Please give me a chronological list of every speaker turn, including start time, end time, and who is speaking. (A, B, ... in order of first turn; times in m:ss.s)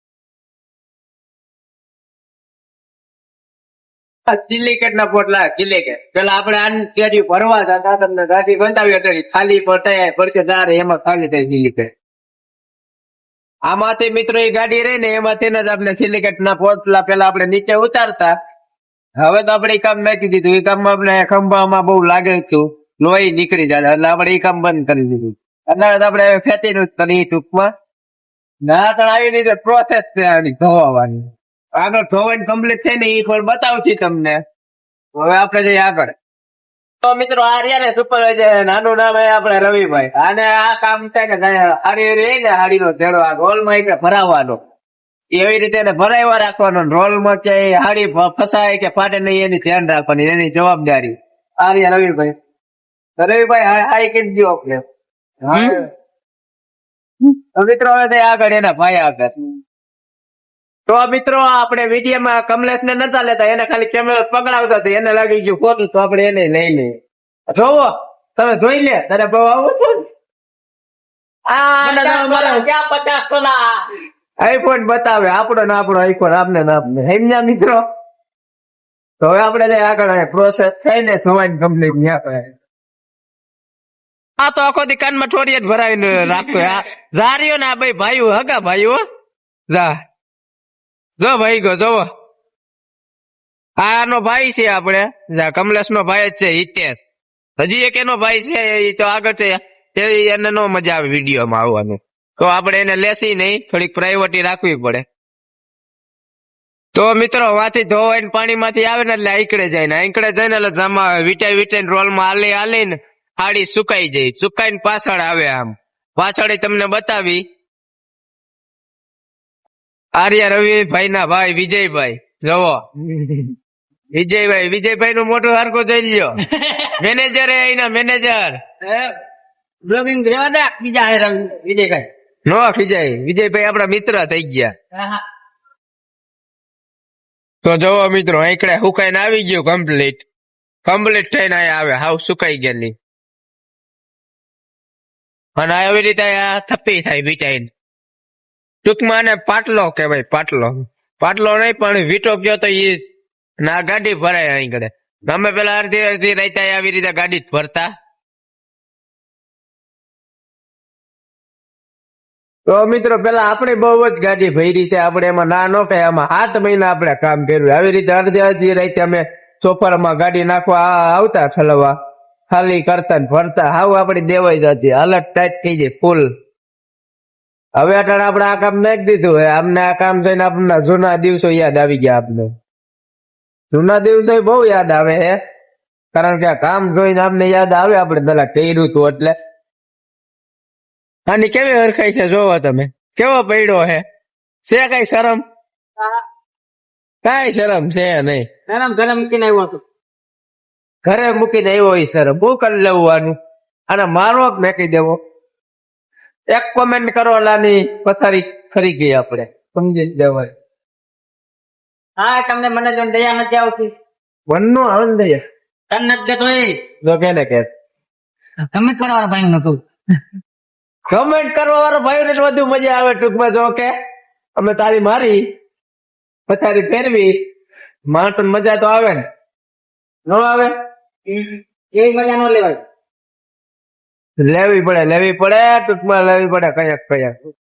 0:04.3-0:11.9 A
0:13.7-0:18.3 A
0:19.2-0:27.7 A
0:28.6-0:34.4 A
0:35.2-0:36.1 A
0:37.0-0:44.6 A
0:45.3-0:52.3 A
0:53.2-0:54.8 A
0:55.5-0:55.8 A
0:55.5-0:55.8 B
0:57.2-0:59.3 A
1:00.9-1:07.0 A
1:07.5-1:10.0 A
1:11.5-1:12.6 A
1:11.8-1:13.8 B
1:14.4-1:17.8 A
1:19.2-1:22.5 A
1:24.4-1:29.0 A
1:29.7-1:30.0 A
1:31.2-1:32.0 A
1:33.8-1:37.1 A
1:37.6-1:45.0 A
1:46.9-1:57.4 A
2:00.2-2:03.5 A
2:04.1-2:06.4 A
2:06.5-2:06.9 B
2:07.0-2:08.6 A
2:08.8-2:09.1 B
2:09.8-2:12.1 B
2:12.4-2:14.7 A
2:17.6-2:20.2 A
2:20.8-2:22.9 A
2:25.6-2:27.7 A
2:28.8-2:33.0 A
2:33.6-2:37.9 A
2:42.7-2:51.9 A
2:52.5-2:56.3 A
2:57.8-3:02.5 A
3:03.7-3:05.4 A
3:06.1-3:09.3 A
3:11.3-3:14.0 A
3:14.6-3:15.4 A
3:17.2-3:18.4 A
3:18.7-3:19.8 B
3:21.0-3:23.4 A
3:23.9-3:25.2 A
3:26.5-3:30.5 A
3:32.2-3:33.9 B
3:34.5-3:35.4 A
3:35.9-3:36.8 B
3:37.0-3:37.7 A
3:38.7-3:39.8 B
3:41.1-3:43.9 A
3:44.6-3:45.4 A
3:46.5-3:47.3 A
3:48.1-3:49.2 A
3:50.3-3:50.7 A
3:51.3-3:52.8 B
3:54.4-3:57.3 A